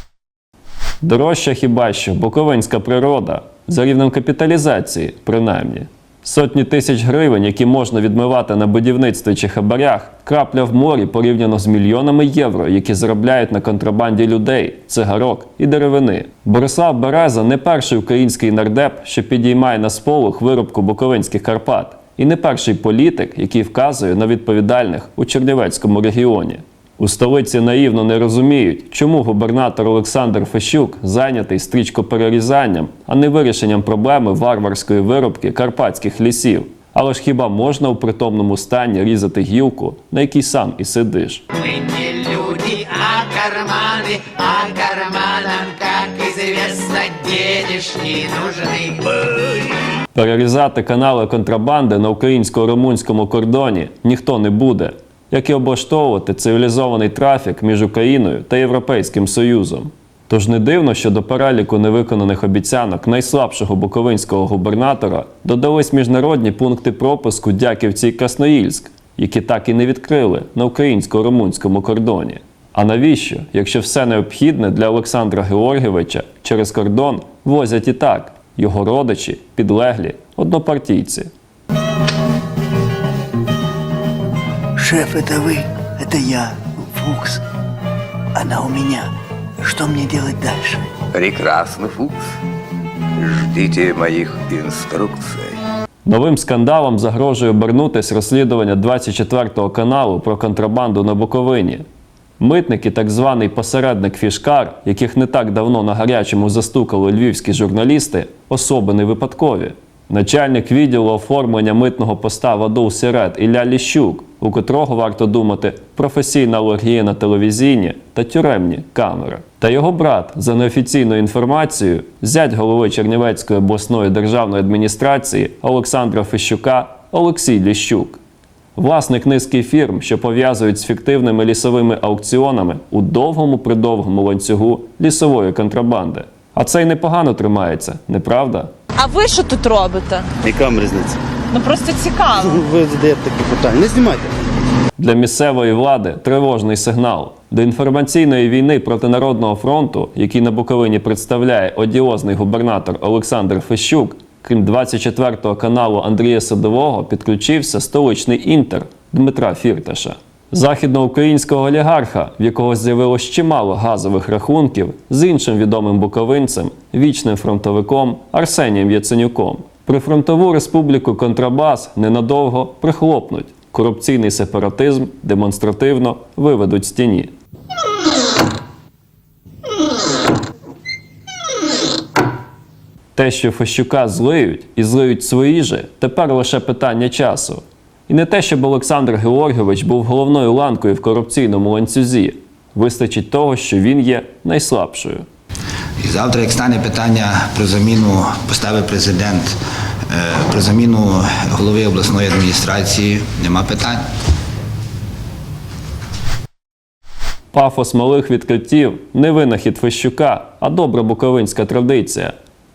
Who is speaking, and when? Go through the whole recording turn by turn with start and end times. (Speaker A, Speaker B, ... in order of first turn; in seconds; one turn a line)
Speaker A: 1.0-41.4
Speaker B: 41.6-49.1
Speaker A: 50.1-81.3
Speaker C: 84.8-87.4
Speaker C: 88.3-89.0
Speaker C: 89.6-90.8
Speaker D: 91.1-92.1
Speaker D: 93.2-95.3
Speaker A: 96.0-101.8
Speaker A: 102.4-128.2
Speaker A: 128.8-138.7
Speaker E: 139.0-140.2
Speaker F: 140.5-141.1
Speaker E: 141.5-142.6
Speaker F: 142.3-144.3
Speaker A: 145.0-177.3
Speaker A: 183.1-195.2
Speaker G: 196.0-199.5
Speaker G: 200.1-204.0
Speaker A: 207.5-212.3